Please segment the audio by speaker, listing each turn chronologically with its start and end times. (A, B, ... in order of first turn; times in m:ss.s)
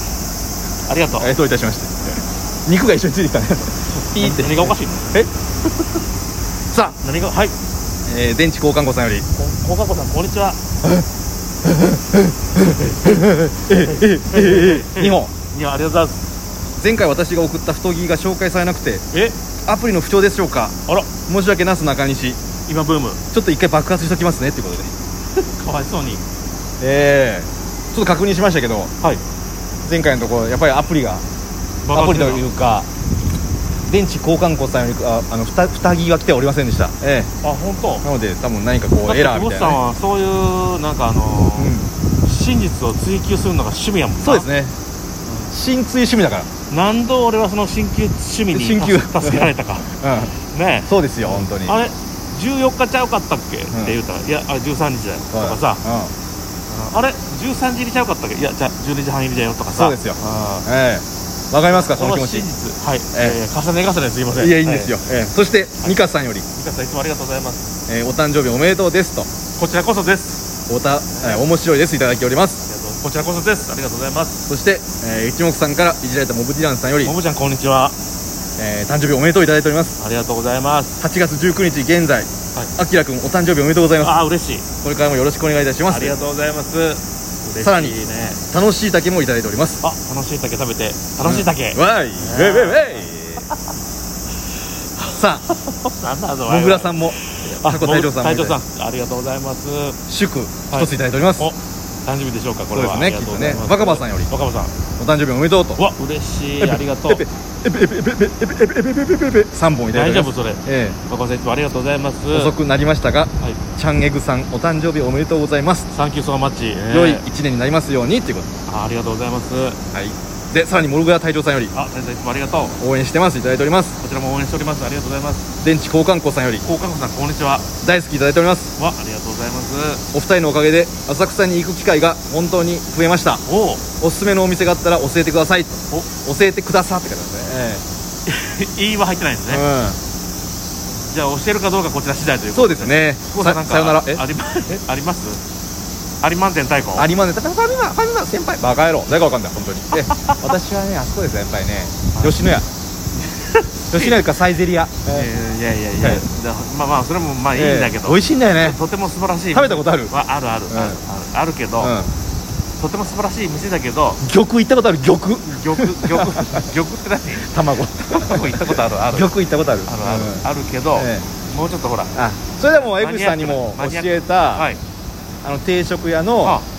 0:00.9-0:01.3 A
0:01.2-0:05.3 B
0:04.0-0:05.1 A
0:06.7-0:07.0 B
0:06.9-0:07.6 A
0:08.1-0:09.3 B
0:09.3-0:10.6 A
0:11.6-0:15.3 B
0:12.8-0:13.2 A
0:13.7-0:16.2 A
0:16.8-0:19.0 B
0:19.6-0:20.8 B
0:21.3-0:22.4 B
0:22.7-0:23.2 A
0:23.3-0:24.9 B
0:25.4-0:26.2 A
0:26.8-0:28.9 B
0:29.8-0:31.2 B
0:31.8-0:32.4 A
0:31.9-0:32.9 B
0:33.9-0:37.3 B
0:37.4-0:38.0 A
0:38.0-0:39.8 B
0:39.0-0:44.5 A
0:41.6-0:41.9 B
0:44.2-0:44.8 B
0:45.5-0:46.5 B
0:46.7-0:49.9 A
0:48.5-0:49.5 B
0:50.0-0:50.3 B
0:50.5-0:55.8 A
0:50.9-0:51.8 B
0:53.7-0:54.0 B
0:55.3-0:56.1 B
0:56.7-1:00.7 A
0:59.7-1:02.5 B
1:01.7-1:05.0 A
1:04.4-1:06.5 B
1:06.5-1:07.7 A
1:07.9-1:09.3 B
1:09.6-1:10.4 A
1:10.7-1:12.7 B
1:11.1-1:11.4 A
1:12.7-1:14.4 A
1:14.5-1:17.2 B
1:17.0-1:18.0 A
1:18.6-1:20.0 B
1:20.0-1:21.0 A
1:21.0-1:24.2 B
1:24.0-1:24.6 A
1:24.8-1:26.2 B
1:25.9-1:28.4 A
1:27.6-1:28.0 B
1:28.5-1:29.8 B
1:29.8-1:33.7 A
1:31.2-1:33.5 B
1:35.0-1:40.0 A
1:35.1-1:35.5 B
1:36.5-1:38.6 B
1:40.1-1:41.5 B
1:40.7-1:44.7 A
1:42.7-1:44.3 B
1:45.0-1:45.8 B
1:45.8-1:47.2 A
1:46.6-1:51.0 B
1:49.9-1:52.6 A
1:52.3-1:55.9 B
1:55.9-1:57.2 A
1:56.9-1:58.5 B
1:58.7-1:59.8 A
1:59.9-2:01.7 B
2:01.7-2:02.8 A
2:02.8-2:04.0 B
2:04.0-2:05.5 A
2:05.6-2:06.6 B
2:06.6-2:07.7 A
2:07.8-2:08.8 B
2:08.8-2:10.0 A
2:10.1-2:13.4 B
2:13.4-2:13.8 A
2:14.0-2:17.8 B
2:18.3-2:19.6 A
2:19.5-2:20.0 B
2:21.0-2:25.4 A
2:22.5-2:24.2 B
2:26.2-2:27.1 A
2:27.0-2:32.7 B
2:30.0-2:30.4 A
2:32.2-2:32.4 A
2:33.2-2:34.3 A
2:33.9-2:35.3 B
2:35.1-2:42.0 A
2:37.6-2:38.8 B
2:39.5-2:40.1 B
2:40.7-2:41.0 B
2:41.8-2:42.1 B
2:42.8-2:44.2 A
2:44.2-2:46.7 B
2:45.5-2:47.6 A
2:47.4-2:51.3 B
2:48.1-2:49.3 A
2:49.9-2:52.1 A
2:52.2-2:54.7 B
2:52.7-2:54.8 A
2:55.4-2:56.6 B